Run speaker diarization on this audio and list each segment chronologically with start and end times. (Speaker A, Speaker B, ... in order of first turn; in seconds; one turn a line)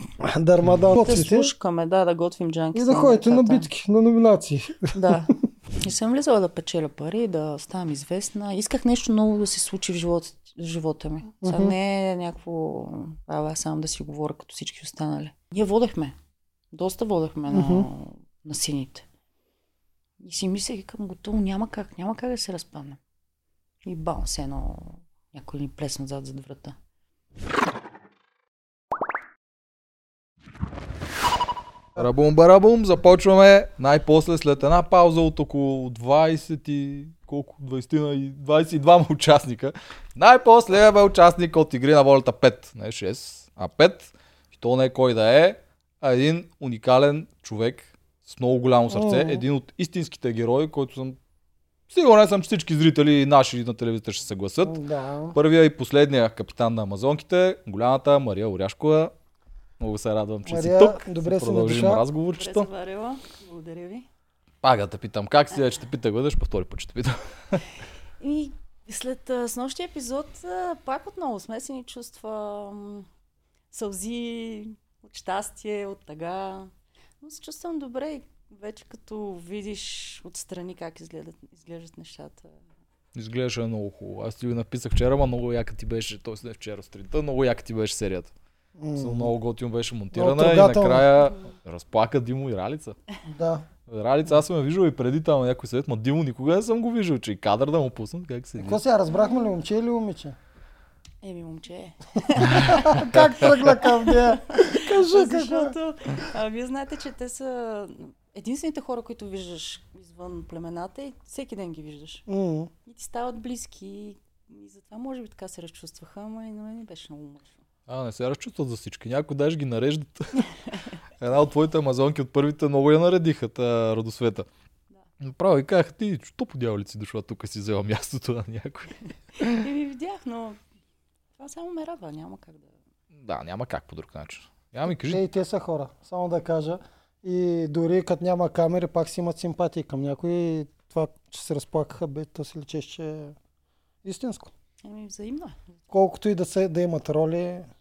Speaker A: 0.2-1.5
Speaker B: 0.9-3.7
Speaker A: 2.7-5.3
Speaker B: 4.9-16.1
Speaker A: 11.4-11.7
Speaker B: 16.7-19.1
Speaker A: 17.5-17.9
Speaker B: 20.2-23.0
Speaker B: 23.9-26.8
Speaker C: 32.0-51.2
Speaker A: 48.9-49.5
Speaker C: 51.9-54.8
Speaker A: 54.6-55.4
Speaker C: 55.3-59.1
Speaker C: 59.8-62.7
Speaker A: 60.5-62.0
Speaker B: 62.3-64.1
Speaker C: 64.6-67.6
Speaker B: 68.2-73.1
Speaker B: 73.7-82.6
Speaker C: 83.2-88.3
Speaker A: 88.8-89.3
Speaker C: 89.0-93.0
Speaker A: 90.1-91.1
Speaker A: 93.3-93.7
Speaker C: 93.9-98.8
Speaker A: 98.6-100.4
Speaker B: 99.2-99.4
Speaker B: 101.2-103.2
Speaker A: 102.4-105.8
Speaker C: 102.5-103.3
Speaker B: 103.8-112.3
Speaker A: 112.3-112.7
Speaker B: 112.8-117.6
Speaker C: 117.9-120.5
Speaker C: 121.2-124.5
Speaker C: 125.2-129.6
Speaker B: 129.4-130.6
Speaker B: 131.4-132.7
Speaker C: 133.1-135.2
Speaker A: 134.9-143.4
Speaker A: 144.0-144.5
Speaker B: 144.8-145.8
Speaker A: 145.9-147.7